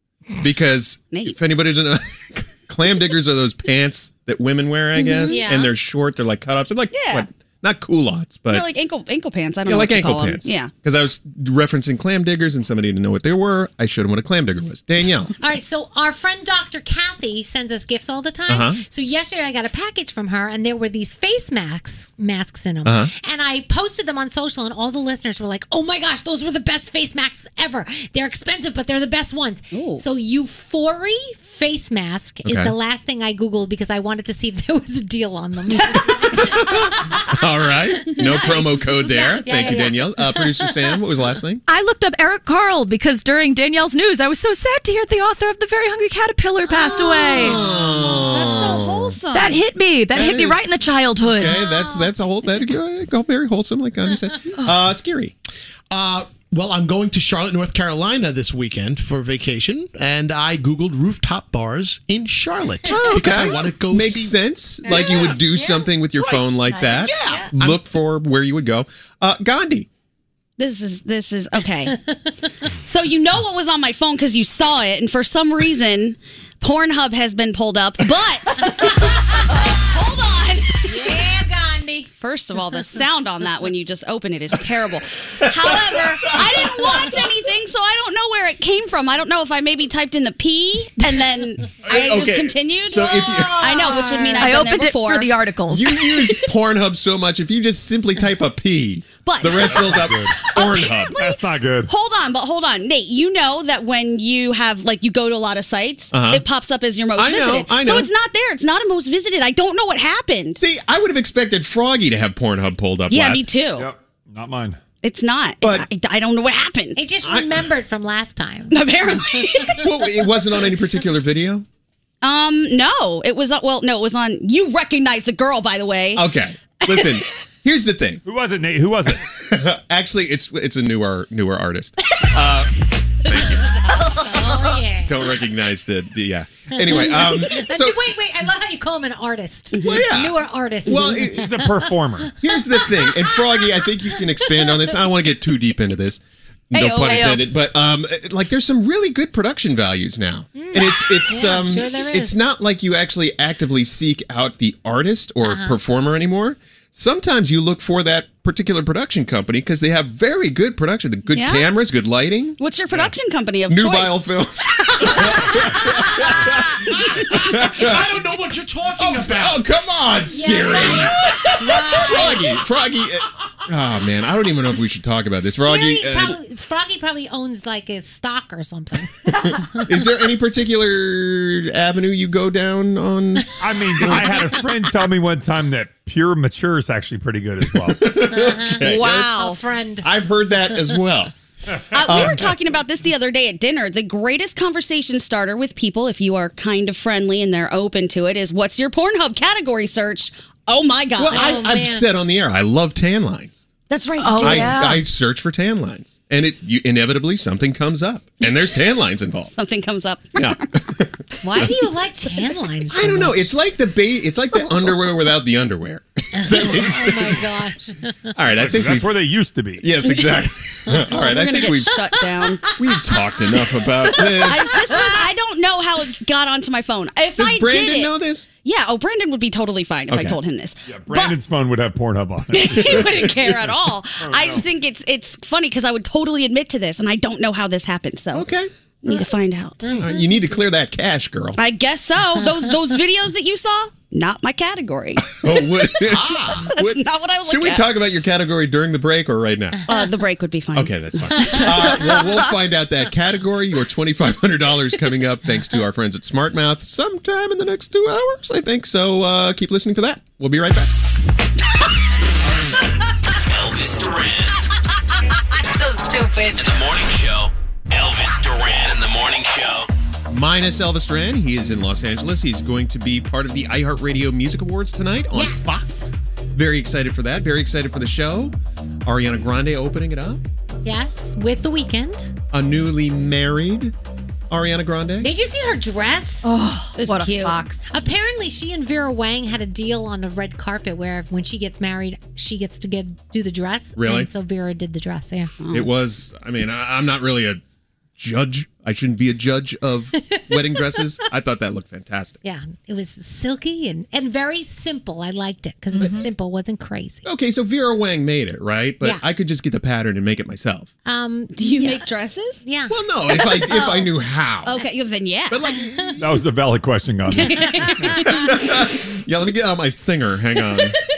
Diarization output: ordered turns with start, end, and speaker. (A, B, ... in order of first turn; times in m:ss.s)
0:00.4-0:08.7 A
0:05.0-0:05.4 B
0:05.3-0:05.7 C
0:06.9-0:07.3 B
0:08.5-0:10.7 B
0:09.7-0:15.3 A
0:15.4-0:37.3 C
0:18.5-0:18.8 A
0:22.8-0:23.1 A
0:29.7-0:30.0 B
0:32.4-0:32.7 A
0:36.1-0:41.6 A
0:38.1-0:40.8 C
0:41.7-0:47.6 D
0:46.7-0:47.5 C
0:47.4-0:49.2 A
0:47.4-0:49.6 B
0:49.3-0:51.6 D
0:50.2-0:50.7 A
0:51.3-0:55.3 A
0:51.4-0:52.1 C
0:55.9-1:04.4 E
1:02.9-1:09.9 A
1:02.9-1:03.4 C
1:04.9-1:05.9 C
1:04.9-1:05.3 E
1:06.7-1:07.5 C
1:06.9-1:07.8 E
1:10.6-1:12.0 B
1:11.9-1:12.4 C
1:12.6-1:21.2 B
1:18.6-1:19.6 C
1:20.8-1:22.1 C
1:22.2-1:35.3 B
1:25.4-1:26.3 A
1:31.8-1:33.8 A
1:33.4-1:34.4 C
1:34.4-1:36.0 D
1:35.7-1:41.2 A
1:39.2-1:50.6 B
1:39.6-1:40.4 F
1:41.2-1:41.9 F
1:46.1-1:46.4 A
1:47.2-1:48.1 A
1:50.6-1:53.4 A
1:53.1-1:53.9 B
1:53.8-1:54.8 F
1:55.0-1:57.0 B
1:57.0-1:59.8 C
1:57.2-1:57.6 A
1:58.7-1:59.8 B
1:59.8-2:01.6 A
2:02.2-2:06.3 B
2:06.2-2:08.2 A
2:06.9-2:07.2 B
2:08.2-2:09.3 F
2:09.4-2:13.8 A
2:13.9-2:15.2 C
2:14.0-2:14.7 D
2:15.1-2:18.0 A
2:16.8-2:23.4 C
2:19.7-2:20.1 B
2:19.8-2:21.5 A
2:21.3-2:22.4 F
2:22.4-2:26.2 A
2:24.4-2:24.8 C
2:26.7-2:42.6 A
2:26.7-2:27.4 D
2:30.6-2:32.4 C
2:35.4-2:35.8 C
2:41.3-2:41.7 B
2:42.6-2:44.3 B
2:43.7-2:48.1 A
2:44.8-2:46.3 B
2:47.2-2:49.6 E
2:49.0-2:56.4 A
2:50.3-2:52.5 C
2:55.4-2:59.9 C
2:59.4-3:04.4 A
3:03.6-3:08.1 F
3:04.0-3:04.5 C
3:07.8-3:09.3 A
3:08.3-3:10.1 C
3:08.8-3:09.6 B
3:10.0-3:11.3 A
3:11.9-3:21.6 B
3:12.0-3:12.6 A
3:21.2-3:23.6 A
3:21.3-3:22.0 C
3:23.9-3:24.9 B
3:24.2-3:25.0 D
3:24.4-3:29.5 A
3:29.5-3:30.6 B
3:30.4-3:31.7 A
3:31.4-3:33.5 C
3:32.9-3:37.5 A
3:36.3-3:38.3 C
3:38.4-3:39.2 A
3:38.6-3:39.9 F
3:39.8-3:42.0 A
3:40.0-3:40.4 B
3:41.1-3:42.7 B
3:42.8-3:44.9 A
3:44.2-3:48.1 B
3:44.9-3:45.2 C
3:47.4-3:48.5 A
3:48.6-3:51.4 B
3:50.1-3:50.4 A
3:50.9-3:53.1 F
3:52.5-3:58.5 B
3:52.8-3:53.6 A
3:54.2-3:54.6 F
3:58.3-3:58.7 A
3:59.0-4:00.0 B
3:59.8-4:00.2 C
3:59.9-4:01.6 A
4:01.6-4:05.3 B
4:05.4-4:09.8 A
4:06.0-4:06.6 E
4:06.6-4:07.9 B
4:09.9-4:11.9 B
4:10.8-4:20.9 A
4:11.4-4:12.0 C
4:23.5-4:24.5 G
4:26.6-4:29.9 G
4:30.3-4:40.4 A
4:35.3-4:36.1 C
4:40.8-4:42.3 C
4:42.5-4:43.9 A
4:44.5-4:45.3 A
4:45.2-4:46.5 C
4:46.4-4:47.8 D
4:47.0-4:47.7 B
4:47.9-4:55.5 C
4:54.0-4:54.3 A
4:55.6-4:55.9 B
4:55.7-4:57.6 A
4:58.2-5:02.4 A
5:02.4-5:07.3 C
5:07.2-5:10.9 A
5:11.0-5:12.0 C
5:11.6-5:12.6 B
5:12.6-5:13.8 C
5:12.9-5:14.8 A
5:13.6-5:14.1 B
5:14.6-5:15.6 B
5:15.5-5:16.4 A
5:15.7-5:16.2 C
5:16.2-5:18.1 F
5:17.3-5:18.6 C
5:17.3-5:18.2 B
5:18.2-5:21.0 A